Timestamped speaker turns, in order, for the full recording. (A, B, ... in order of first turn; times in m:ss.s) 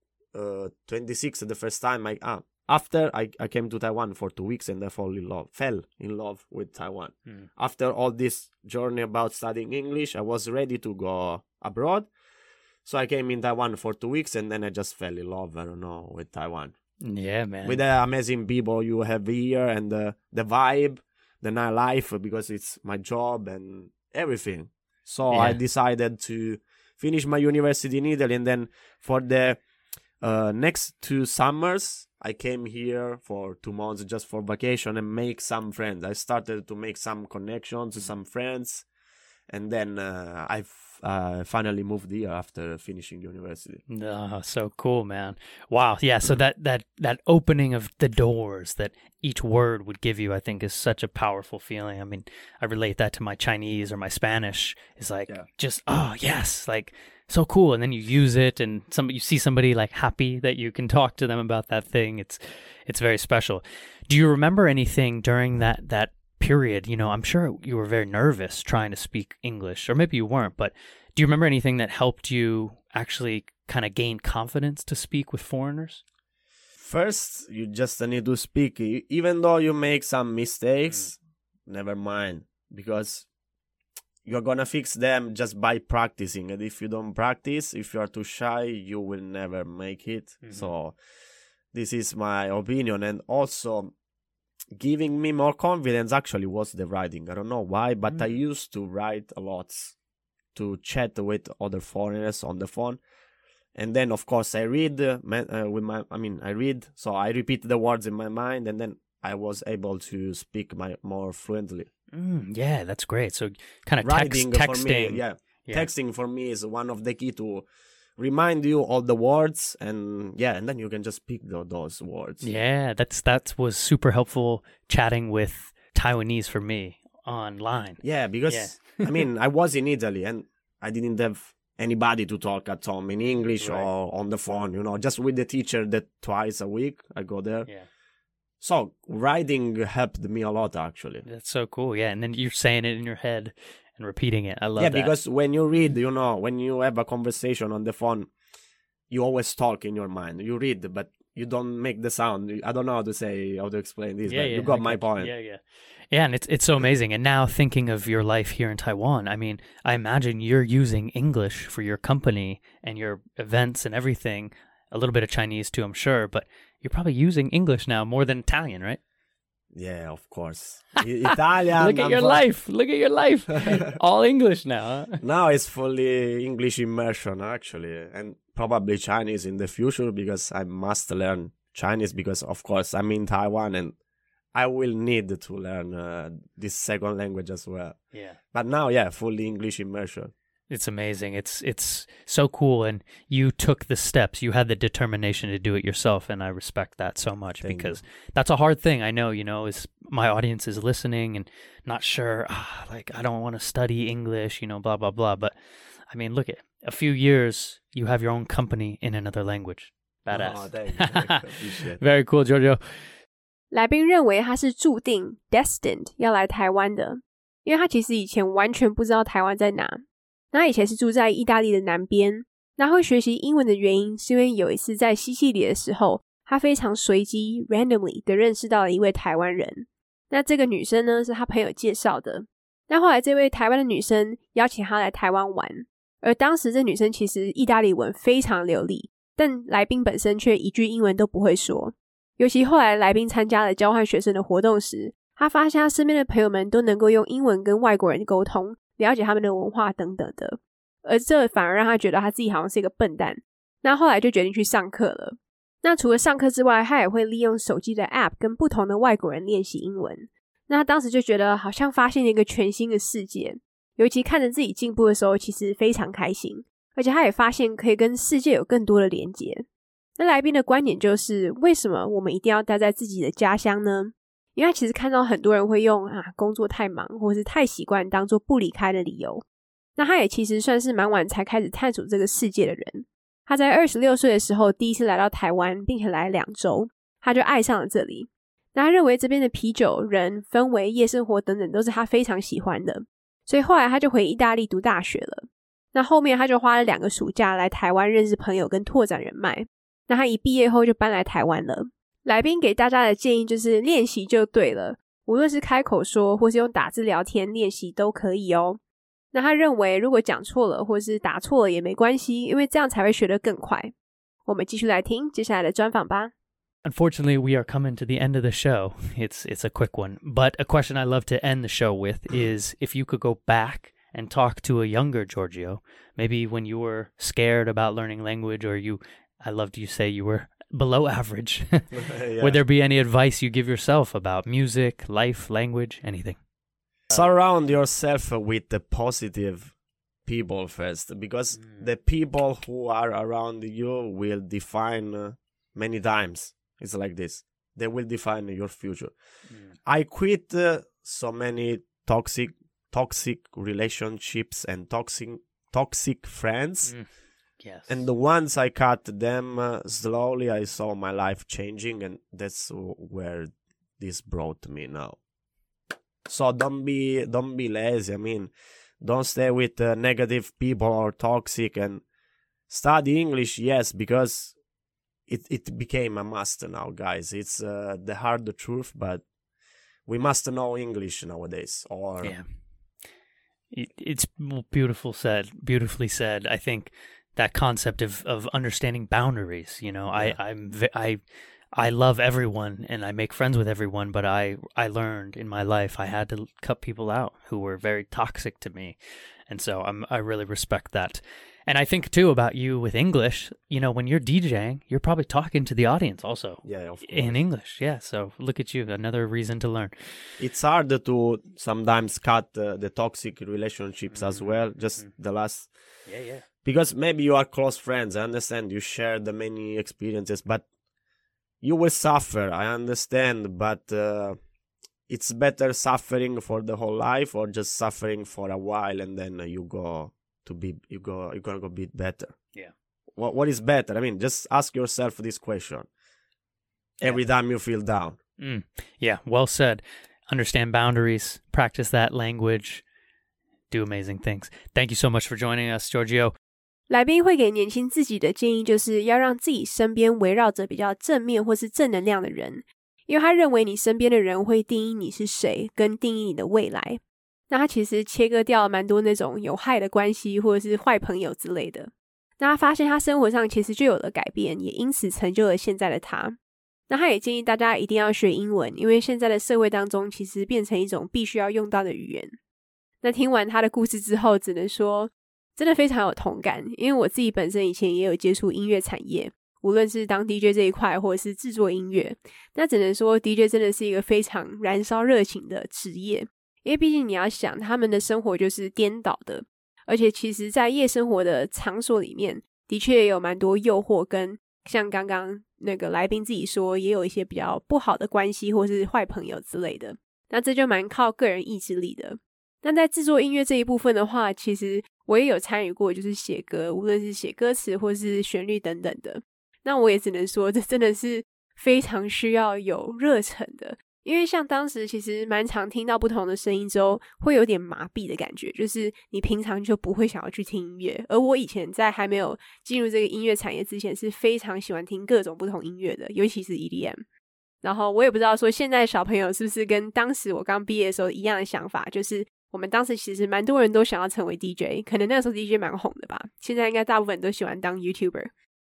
0:00.3-0:12.1 A
0:12.8-0:16.8 A
0:17.0-0:17.8 B
0:17.6-0:29.6 A
0:25.3-0:25.6 B
0:30.2-0:38.9 A
0:39.5-0:43.8 A
0:43.9-1:16.0 B
1:16.8-1:23.3 A
1:24.2-1:31.0 A
1:30.4-1:30.7 B
1:31.7-1:33.9 A
1:34.7-1:40.0 A
1:40.6-1:43.0 A
1:43.8-1:51.9 A
1:52.1-1:55.9 B
1:54.0-1:57.7 A
1:58.2-2:02.4 A
2:02.4-2:09.2 B
2:08.0-2:17.7 A
2:13.6-2:13.9 B
2:18.6-2:21.2 A
2:21.2-2:25.1 B
2:24.8-2:28.3 A
2:29.1-2:35.3 A
2:34.3-2:49.0 B
2:49.7-2:52.4 A
2:51.8-2:55.2 B
2:53.7-2:54.0 A
2:55.2-3:04.0 A
3:04.5-3:08.0 A
3:08.1-3:08.4 B
3:08.5-3:10.3 A
3:10.7-3:25.6 B
3:17.6-3:18.0 A
3:26.1-3:31.4 B
3:30.3-3:32.0 A
3:32.0-3:33.1 B
3:33.7-4:29.7 C
4:30.2-4:39.4 C
4:40.0-5:08.8 C
5:09.3-5:13.9 C
5:14.5-5:16.3 C
5:16.8-5:36.4 B
5:31.9-5:32.6 A
5:37.1-5:39.7 A
5:40.3-5:49.1 A
5:41.6-5:41.8 B
5:49.5-5:49.7 B
5:49.8-5:57.0 A
5:57.6-5:58.0 B
5:57.9-6:05.2 A
6:06.3-6:12.0 A
6:12.7-6:14.6 A
6:15.3-6:19.2 A
6:20.1-6:22.4 A
6:23.7-6:31.2 B
6:31.7-6:50.4 B
6:46.6-6:47.4 A
6:50.4-6:55.7 A
6:54.1-6:55.1 B
6:56.1-6:56.4 B
6:56.6-7:00.7 A
7:01.6-7:04.4 A
7:05.1-7:12.4 A
7:13.2-7:15.9 A
7:17.0-7:18.2 A
7:18.4-7:22.8 B
7:23.7-7:26.3 B
7:26.9-7:46.4 C
7:46.9-7:52.4 C
7:53.0-8:47.0 C
8:47.6-8:58.3 C